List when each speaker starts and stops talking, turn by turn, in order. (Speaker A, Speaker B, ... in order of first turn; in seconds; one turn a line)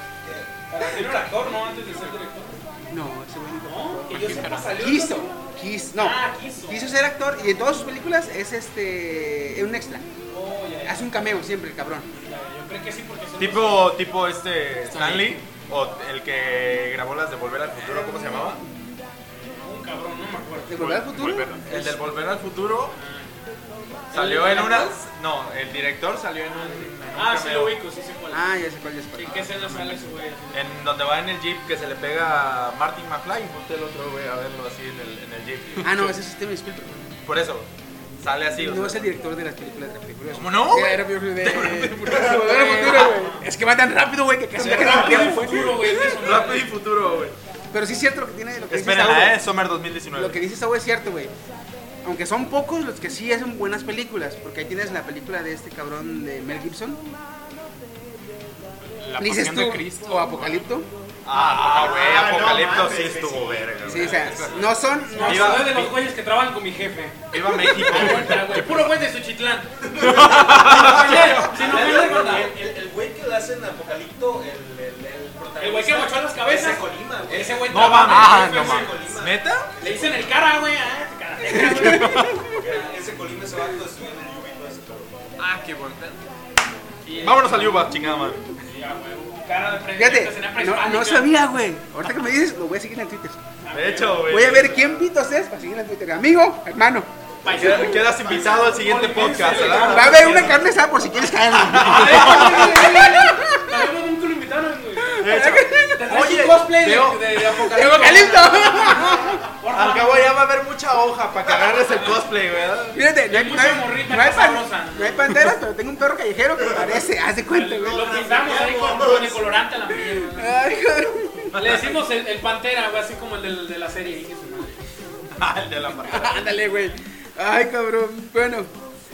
Speaker A: 0.2-0.5
Speaker B: 0.7-2.6
Speaker C: 2.9-10.1
Speaker B: 3.5-5.3
Speaker D: 4.1-4.8
Speaker B: 6.0-6.9
Speaker B: 10.3-11.0
Speaker C: 10.8-12.1
Speaker B: 12.1-13.9
Speaker E: 13.4-18.6
Speaker D: 14.8-15.4
Speaker B: 19.3-20.8
Speaker C: 20.7-22.0
Speaker D: 20.8-21.6
Speaker E: 21.6-22.9
Speaker B: 22.9-23.4
Speaker E: 24.1-27.8
Speaker B: 24.1-25.0
Speaker B: 26.5-28.4
Speaker C: 28.3-29.5
Speaker B: 29.1-30.8
Speaker E: 30.5-36.1
Speaker C: 35.8-37.2
Speaker E: 37.2-37.7
Speaker E: 38.2-39.0
Speaker C: 38.6-46.0
Speaker E: 40.3-42.5
Speaker A: 42.1-42.4
Speaker B: 42.2-43.4
Speaker B: 44.5-46.8
Speaker E: 44.6-47.4
Speaker C: 47.7-49.4
Speaker E: 48.7-50.4
Speaker C: 50.1-51.3
Speaker C: 52.0-57.0
Speaker D: 59.0-60.6
Speaker C: 59.2-60.9
Speaker E: 61.2-66.0
Speaker A: 61.3-64.8
Speaker C: 63.9-65.7
Speaker B: 65.1-72.5
Speaker E: 67.3-68.9
Speaker A: 69.8-80.4
Speaker E: 70.0-71.7
Speaker B: 75.6-78.9
Speaker E: 77.7-79.7
Speaker D: 78.1-78.9
Speaker B: 79.8-82.8
Speaker C: 81.4-82.5
Speaker E: 81.9-82.4
Speaker A: 82.5-85.1
Speaker D: 85.4-86.2
Speaker B: 87.0-87.7
Speaker E: 87.2-88.5
Speaker B: 88.6-91.3
Speaker C: 89.9-93.4
Speaker B: 93.6-94.3
Speaker E: 93.7-95.0
Speaker C: 94.2-97.1
Speaker B: 97.4-100.7
Speaker E: 97.5-100.6
Speaker C: 97.6-98.0
Speaker A: 98.0-98.7
Speaker C: 99.7-103.9
Speaker E: 101.5-102.9
Speaker B: 101.7-105.3
Speaker C: 105.1-106.4
Speaker E: 105.2-107.3
Speaker B: 105.9-110.4
Speaker C: 107.4-109.4
Speaker E: 109.7-113.0
Speaker C: 112.9-118.1
Speaker B: 113.3-115.4
Speaker A: 116.7-116.9
Speaker B: 117.5-120.6
Speaker A: 117.8-119.5
Speaker C: 120.1-121.5
Speaker E: 121.5-122.0
Speaker B: 121.5-124.8
Speaker E: 125.3-126.5
Speaker C: 125.9-128.7